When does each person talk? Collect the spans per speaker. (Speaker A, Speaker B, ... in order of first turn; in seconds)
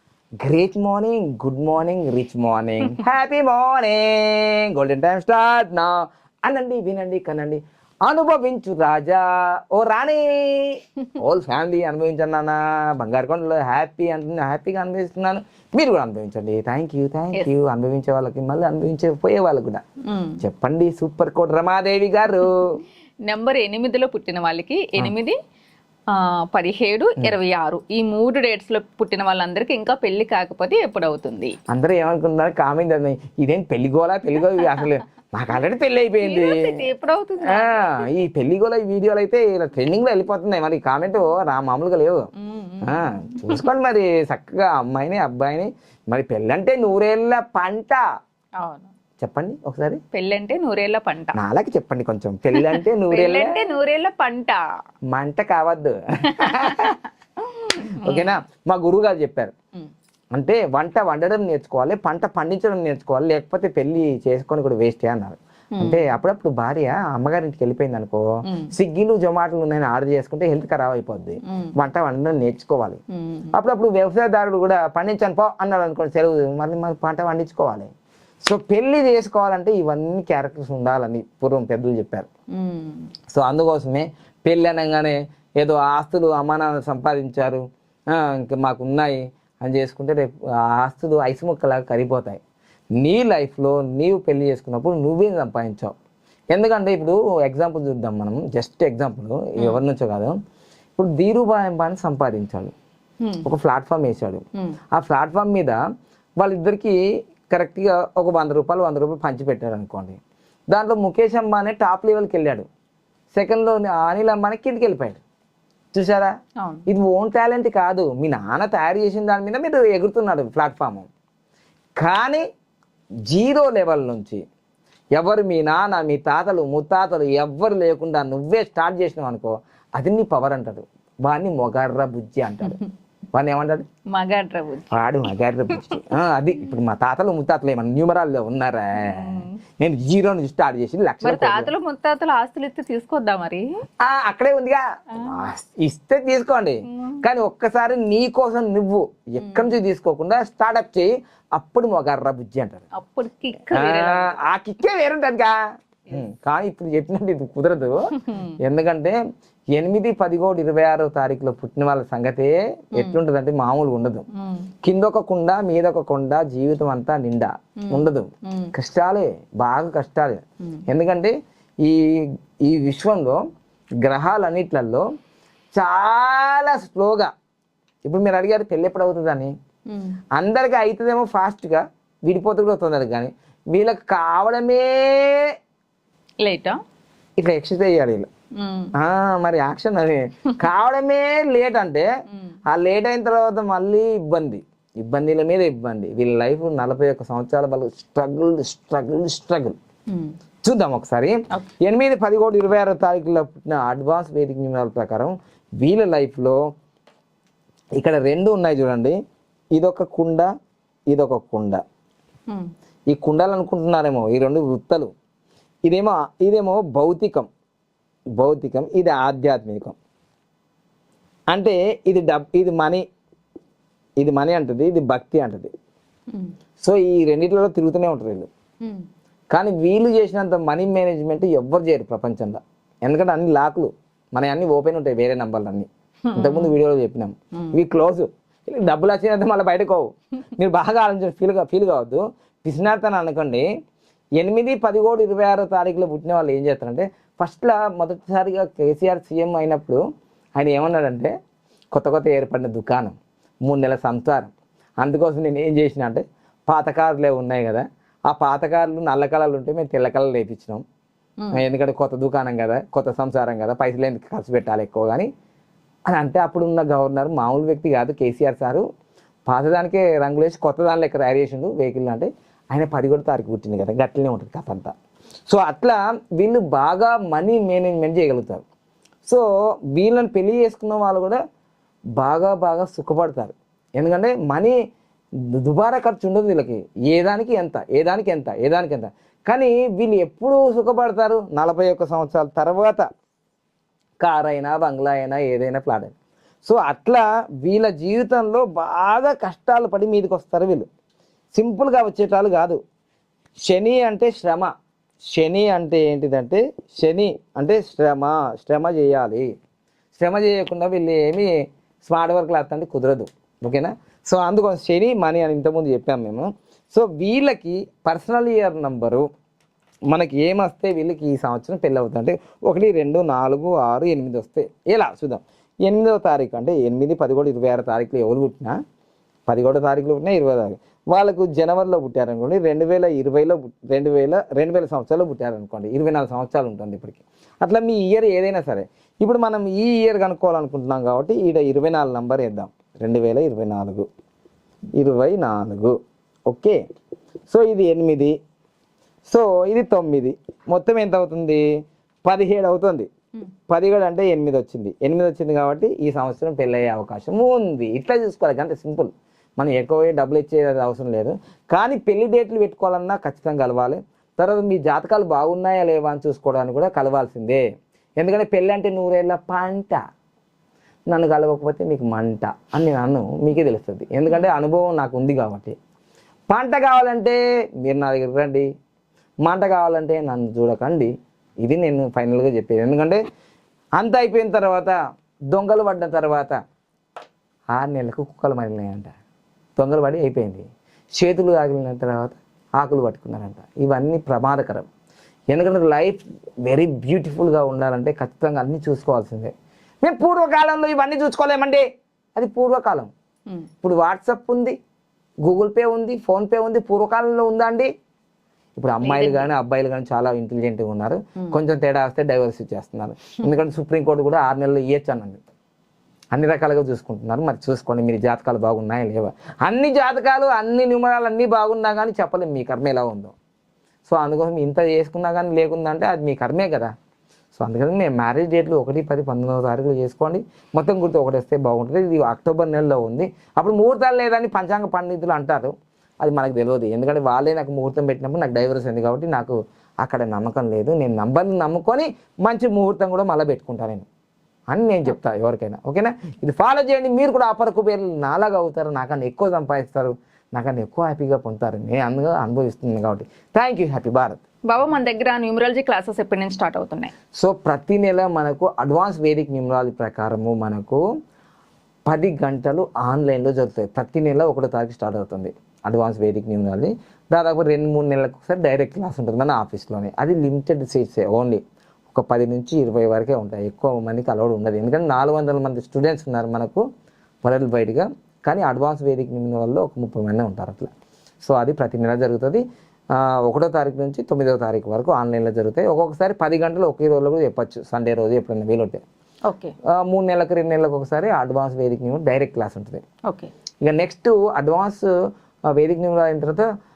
Speaker A: 0.4-19.8, 20.4-22.8, 31.7-36.8, 37.4-42.3, 42.8-48.0, 49.2-50.0, 51.3-53.6, 55.1-57.0, 57.9-59.5, 60.3-73.0, 73.5-77.9, 78.4-82.3, 83.3-92.4, 93.0-95.9, 96.5-100.4, 101.0-102.7, 103.4-105.8, 106.4-107.0, 107.5-110.2, 110.7-112.7, 113.3-115.2, 115.9-116.3, 116.9-121.1, 122.0-122.4, 123.3-124.4, 125.2-132.8, 133.3-133.9, 134.9-141.7, 144.0-152.8, 153.7-155.6, 156.1-159.2, 159.7-164.2, 164.8-173.4, 174.0-175.1, 175.7-177.3, 178.1-179.5, 180.3-185.5, 187.4-188.3, 189.0-192.1, 192.7-199.8, 200.6-206.6, 208.0-209.2, 209.7-210.5, 211.1-211.8, 213.1-215.1, 215.8-217.5, 218.4-219.9, 221.5-223.0, 224.2-225.7, 226.8-228.5, 229.5-243.7, 244.4-250.0, 250.6-251.3, 251.9-260.8, 261.5-265.3, 266.1-268.8, 269.5-274.9, 275.5-278.6, 279.3-281.4, 282.2-284.7, 285.5-293.0, 294.2-300.9, 301.5-302.8, 303.6-304.7, 305.3-309.5, 310.1-319.3, 320.1-328.8, 329.5-344.1, 345.0-346.8, 347.5-348.3, 349.2-351.6, 352.2-353.1, 353.7-367.6, 368.2-370.0, 371.1-375.8, 376.5-378.7, 379.4-381.1, 381.6-383.2, 384.0-384.9, 385.5-386.6, 387.7-389.1, 389.8-394.9, 395.5-401.8, 402.4-403.1, 403.8-404.8, 405.4-407.9, 408.8-415.4, 416.3-423.3, 424.1-426.9, 427.5-444.1, 444.7-454.4, 457.4-461.0, 462.1-476.8, 477.4-480.9, 481.4-489.0, 489.9-493.0, 493.8-495.1, 495.7-496.7
Speaker B: 20.1-20.4, 23.2-25.4, 26.1-31.5, 36.2-38.0, 42.4-43.6, 48.6-48.9, 50.1-51.4, 52.7-54.6, 56.3-58.3, 65.8-66.0, 68.5-68.7, 73.1-73.5, 82.5-83.1, 103.2-103.5, 116.6-116.8, 134.1-134.9, 135.7-136.0, 139.0-139.6, 141.2-143.7, 145.1-145.4, 146.9-147.2, 149.4-149.8, 152.9-154.4, 158.1-158.5, 164.3-164.7, 167.8-168.7, 179.9-180.2, 186.4-186.8, 188.6-188.9, 236.3-236.7, 409.0-409.5, 454.7-457.1, 489.5-489.7